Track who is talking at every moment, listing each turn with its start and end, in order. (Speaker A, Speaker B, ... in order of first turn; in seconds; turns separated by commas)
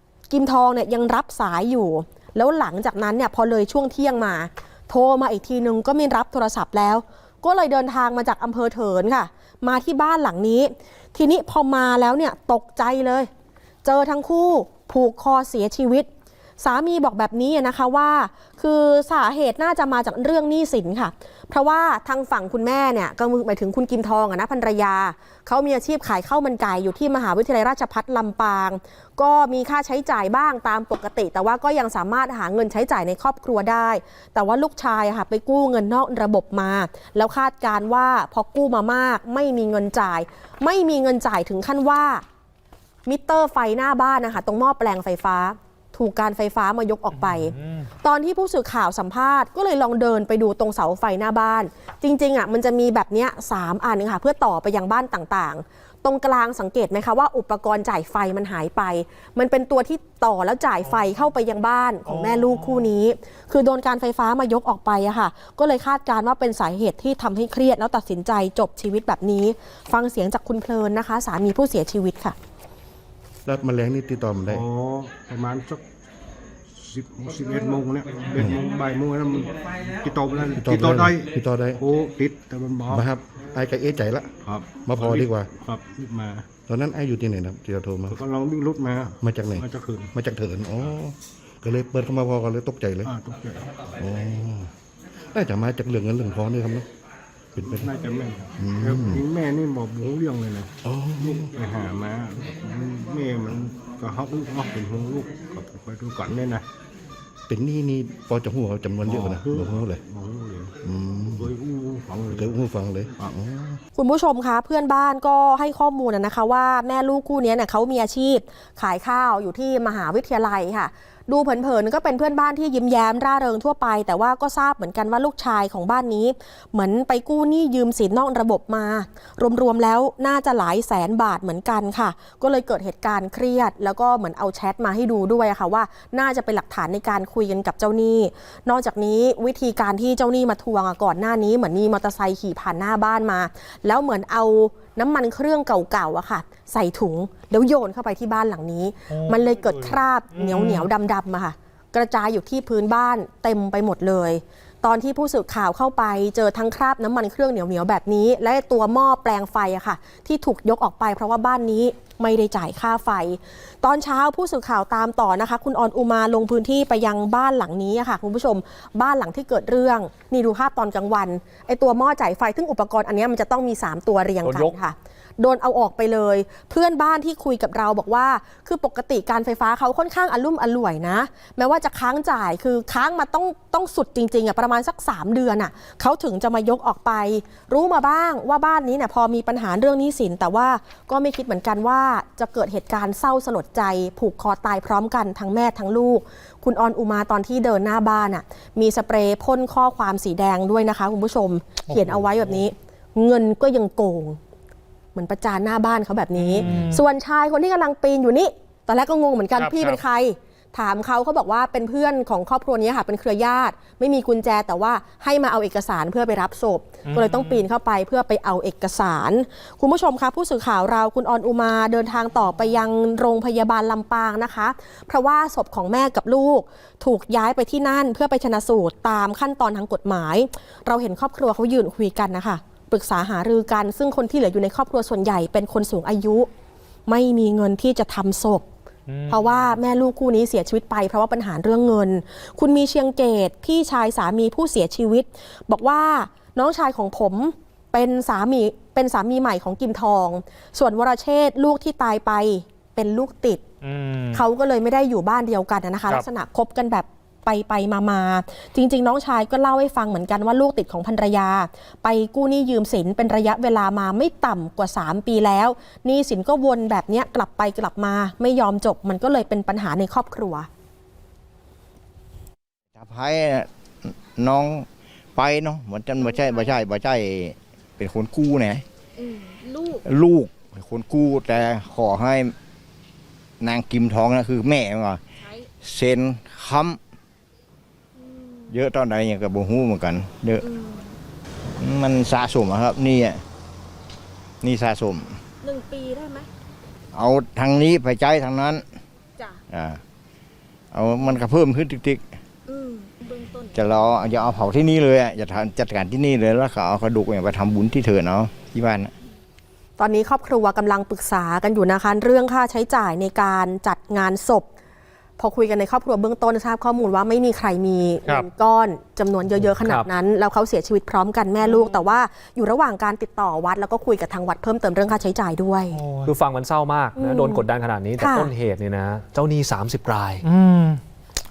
Speaker A: 0.3-13.3, Speaker A: 13.8-16.1, Speaker A: 16.6-42.2, Speaker A: 43.1-72.3, Speaker B: 47.1-47.9, Speaker B: 62.1-62.9, Speaker C: 73.5-74.7, Speaker D: 74.5-75.8, Speaker D: 76.7-83.1, Speaker C: 80.6-81.8, Speaker C: 82.9-85.6, Speaker D: 84.4-86.5, Speaker C: 86.7-88.2, Speaker D: 88.1-90.1, Speaker C: 89.2-93.1, Speaker D: 93.0-93.7, Speaker C: 93.9-94.7, Speaker C: 95.3-96.9, Speaker C: 97.6-97.9, Speaker D: 97.6-106.7, Speaker C: 98.6-99.3, Speaker C: 100.8-101.6, Speaker C: 107.5-110.0, Speaker D: 109.0-110.8, Speaker C: 110.8-111.5, Speaker D: 111.3-112.5, Speaker C: 112.3-113.8, Speaker A: 114.0-204.4, Speaker B: 149.1-150.9, Speaker E: 174.4-174.8, Speaker B: 201.9-202.7, Speaker A: 205.1-236.5, Speaker B: 206.4-207.0, Speaker B: 209.6-210.0, Speaker B: 217.1-217.7, Speaker A: 237.1-238.7, Speaker B: 239.1-239.7, Speaker A: 239.3-253.6, Speaker B: 253.8-254.4, Speaker A: 254.3-270.7, Speaker F: 272.9-278.8, Speaker F: 280.1-282.6, Speaker F: 283.6-285.2, Speaker F: 285.8-287.0, Speaker F: 288.7-290.6, Speaker F: 291.8-293.4, Speaker F: 294.6-295.4, Speaker F: 297.1-298.8, Speaker F: 299.7-300.0, Speaker F: 300.9-302.2, Speaker F: 303.7-309.1, Speaker A: 310.0-314.7, Speaker A: 315.4-326.0, Speaker E: 319.8-320.1, Speaker B: 325.9-326.4, Speaker E: 326.2-330.4, Speaker A: 327.2-327.6, Speaker A: 328.2-328.5, Speaker B: 330.4-331.0